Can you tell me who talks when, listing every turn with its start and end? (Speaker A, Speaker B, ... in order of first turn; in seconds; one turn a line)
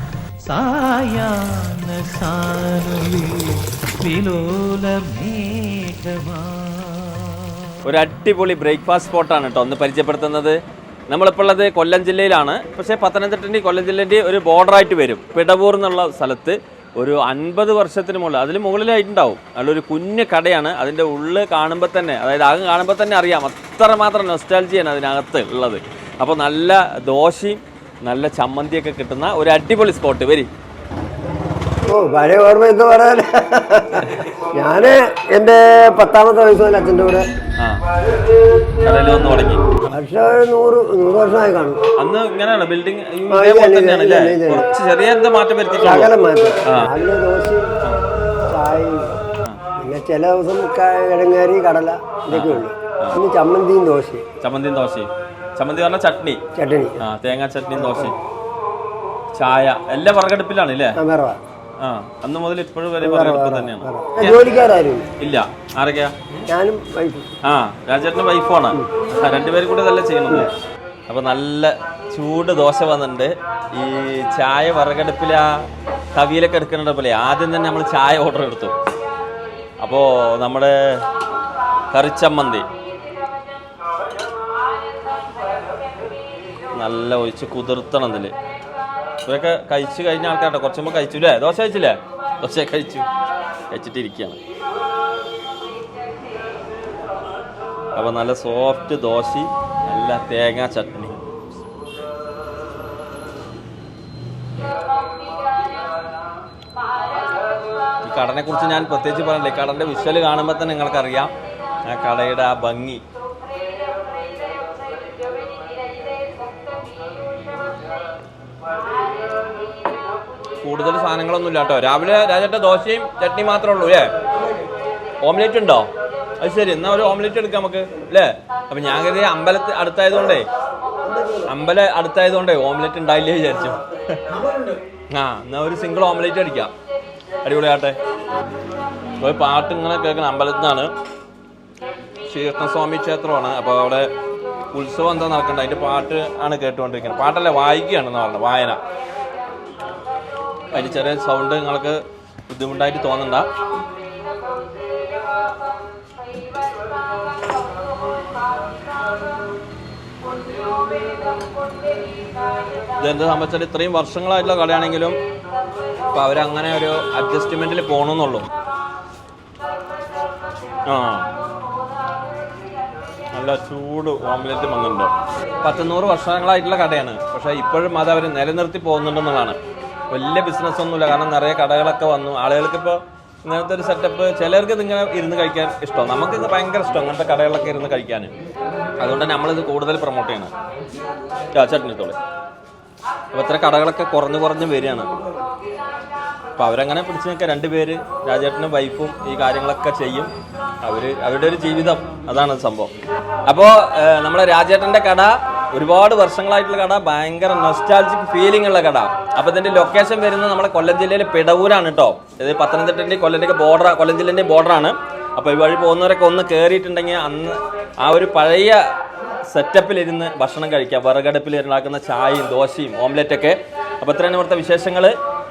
Speaker A: 0.5-7.3
Speaker B: 7.8-10.6
Speaker B: 11.1-30.5
Speaker C: 31.9-37.3
Speaker B: 38.9-39.9
Speaker C: 39.9-41.8
Speaker B: 42.0-46.1
Speaker C: 43.3-44.7
Speaker C: 45.8-47.7
Speaker C: 48.5-49.2
Speaker C: 49.8-54.3
Speaker B: 52.3-53.2
Speaker B: 54.4-56.4
Speaker C: 56.5-57.0
Speaker B: 57.0-58.2
Speaker C: 57.8-58.1
Speaker B: 59.3-61.0
Speaker C: 61.0-61.4
Speaker B: 61.8-64.4
Speaker C: 63.0-65.1
Speaker B: 65.2-66.4
Speaker C: 66.5-67.3
Speaker B: 67.5-70.5
Speaker B: 71.1-78.7
Speaker B: 79.8-80.8
Speaker B: 81.9-82.7
Speaker B: 86.8-88.3
Speaker B: 89.2-93.1
Speaker B: 93.7-94.4
Speaker B: 98.0-101.2
Speaker B: 108.0-111.3
Speaker B: 111.9-113.0
Speaker B: 120.6-124.1
Speaker B: 125.2-125.9
Speaker B: 126.4-130.5
Speaker B: 131.5-134.2
Speaker B: 135.1-136.7
Speaker B: 137.4-138.0
Speaker B: 139.2-140.9
Speaker B: 142.3-144.1
Speaker B: 144.7-148.8
Speaker B: 150.7-153.5
Speaker B: 163.0-165.2
Speaker B: 166.1-168.5
Speaker B: 170.9-171.3
Speaker B: 173.3-179.6
Speaker B: 180.1-188.3
Speaker B: 189.0-190.5
Speaker B: 191.5-192.2
Speaker B: 193.3-195.1
Speaker B: 196.6-200.3
Speaker B: 200.8-202.9
Speaker B: 203.5-218.8
Speaker B: 219.4-225.1